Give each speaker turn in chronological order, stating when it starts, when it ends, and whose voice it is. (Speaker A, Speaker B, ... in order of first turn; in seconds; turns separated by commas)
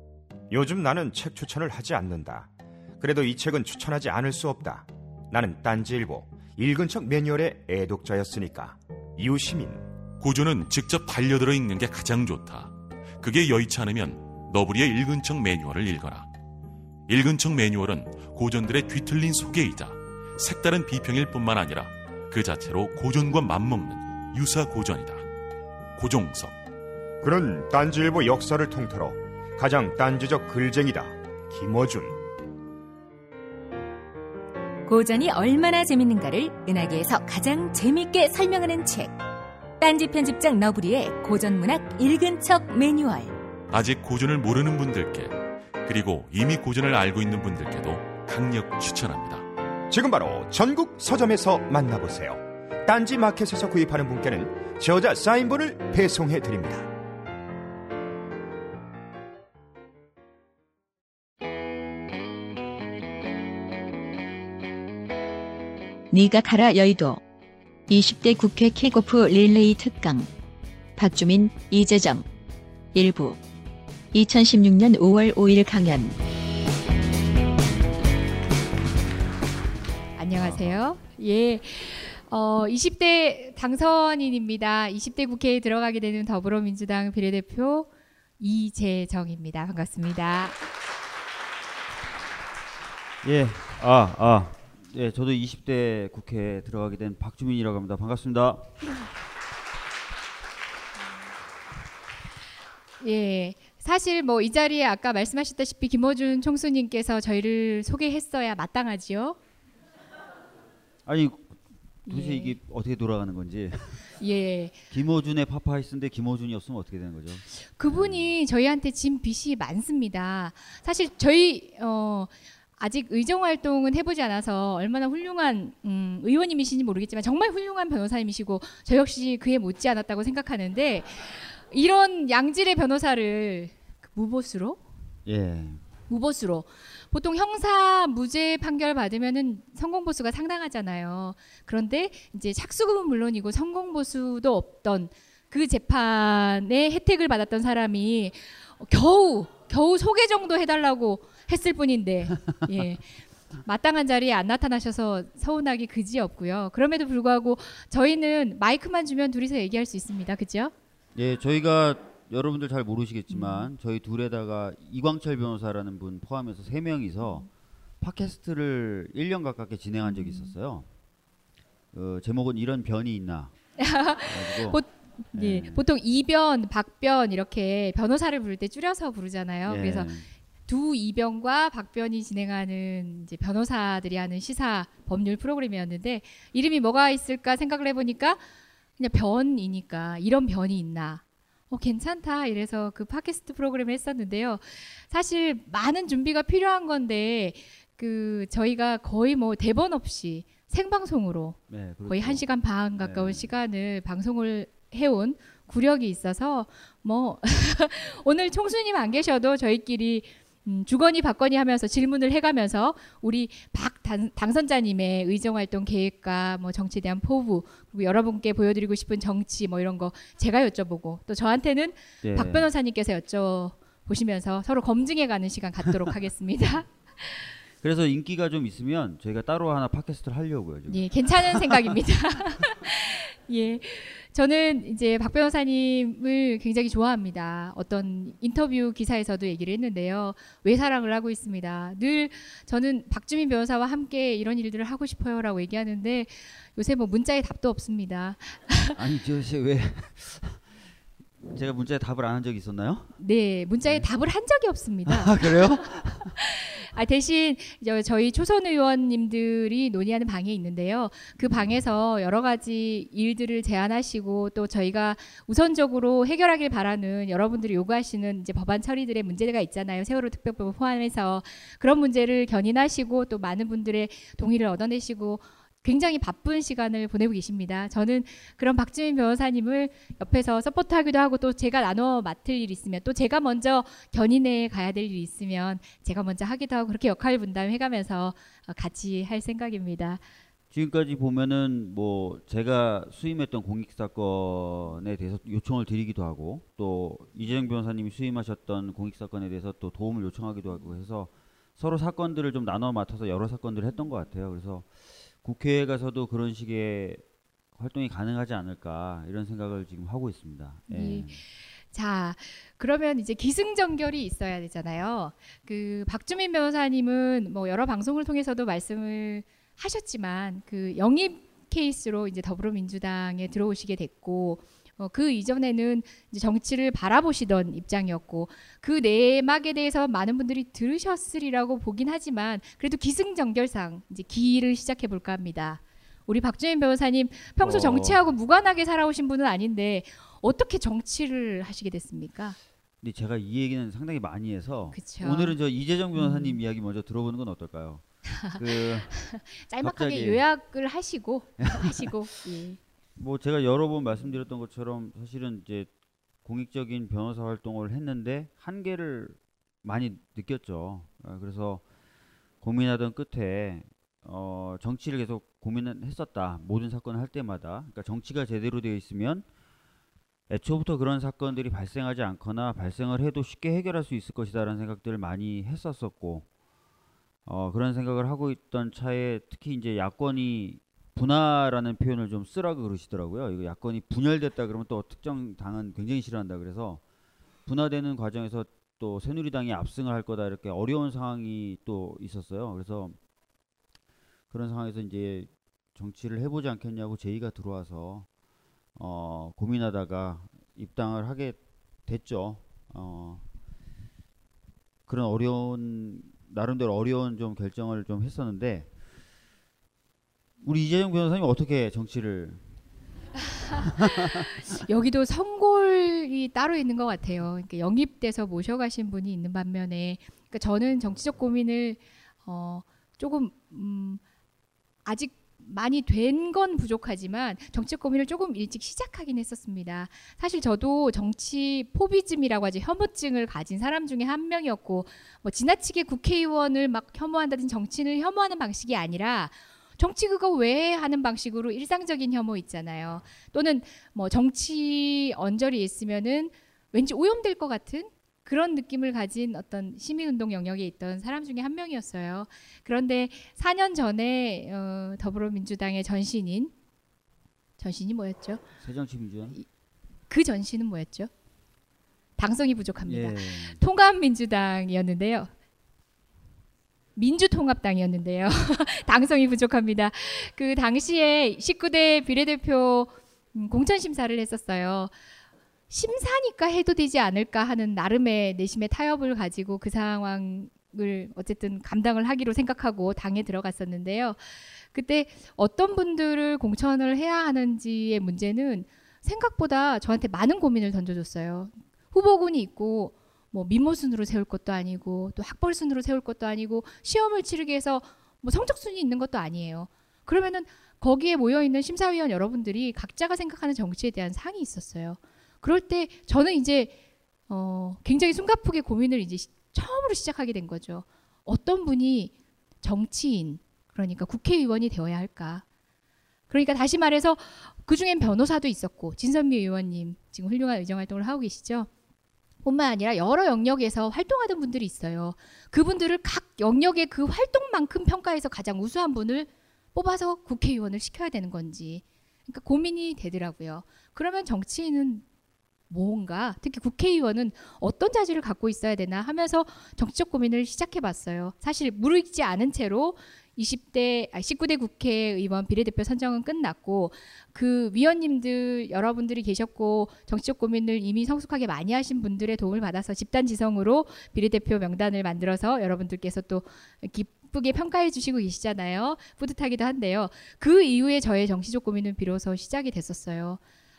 Speaker A: 0.5-9.9, Speaker B: 10.2-16.3, Speaker B: 17.1-25.2, Speaker B: 26.0-26.6, Speaker A: 27.2-32.2, Speaker C: 34.9-39.1, Speaker C: 39.8-43.3, Speaker B: 43.7-49.5, Speaker A: 49.9-56.9, Speaker D: 66.1-67.2, Speaker D: 67.9-70.3, Speaker D: 71.0-72.3, Speaker D: 72.9-73.4, Speaker D: 74.1-76.2, Speaker E: 80.2-87.9, Speaker F: 80.4-80.8, Speaker E: 88.4-90.6, Speaker F: 93.2-98.7, Speaker E: 103.0-109.4, Speaker F: 111.1-114.1, Speaker E: 112.1-112.6, Speaker E: 114.2-114.8, Speaker F: 114.9-118.3, Speaker E: 117.5-134.8, Speaker F: 135.3-135.8, Speaker E: 136.1-160.7, Speaker F: 161.2-167.5, Speaker E: 163.3-163.7, Speaker F: 168.0-170.9, Speaker E: 170.1-170.5, Speaker F: 171.9-173.5, Speaker E: 173.8-180.1, Speaker F: 174.2-174.8, Speaker F: 175.3-175.8, Speaker F: 179.7-180.3, Speaker E: 180.7-188.4, Speaker E: 189.0-227.5, Speaker F: 201.7-202.4, Speaker F: 203.0-203.5, Speaker F: 222.2-222.7, Speaker F: 227.8-231.9, Speaker E: 230.9-249.0, Speaker F: 248.9-250.7, Speaker F: 251.4-253.1, Speaker E: 253.2-290.2, Speaker F: 255.1-256.3, Speaker F: 261.4-261.8, Speaker F: 290.7-304.9, Speaker F: 305.4-307.2, Speaker F: 307.8-311.4, Speaker E: 310.9-342.6, Speaker F: 337.6-338.2, Speaker F: 343.0-350.4, Speaker E: 344.9-345.6, Speaker E: 346.1-346.6, Speaker E: 348.4-352.8, Speaker F: 351.6-352.1, Speaker F: 353.2-355.9, Speaker F: 356.4-361.8, Speaker F: 362.6-369.5, Speaker F: 370.5-376.5, Speaker F: 377.5-387.0, Speaker F: 387.7-393.2, Speaker F: 394.5-398.3, Speaker F: 399.0-403.4, Speaker F: 405.1-408.9, Speaker F: 410.6-412.6, Speaker F: 413.8-414.5, Speaker E: 414.6-424.2, Speaker E: 425.1-456.7, Speaker E: 457.8-458.6, Speaker F: 458.8-459.6, Speaker E: 460.3-461.3, Speaker E: 462.4-465.5, Speaker F: 463.1-463.8, Speaker E: 467.2-475.1, Speaker E: 475.9-506.9, Speaker E: 507.5-515.6, Speaker E: 516.5-521.9, Speaker E: 522.6-535.2, Speaker E: 535.9-563.6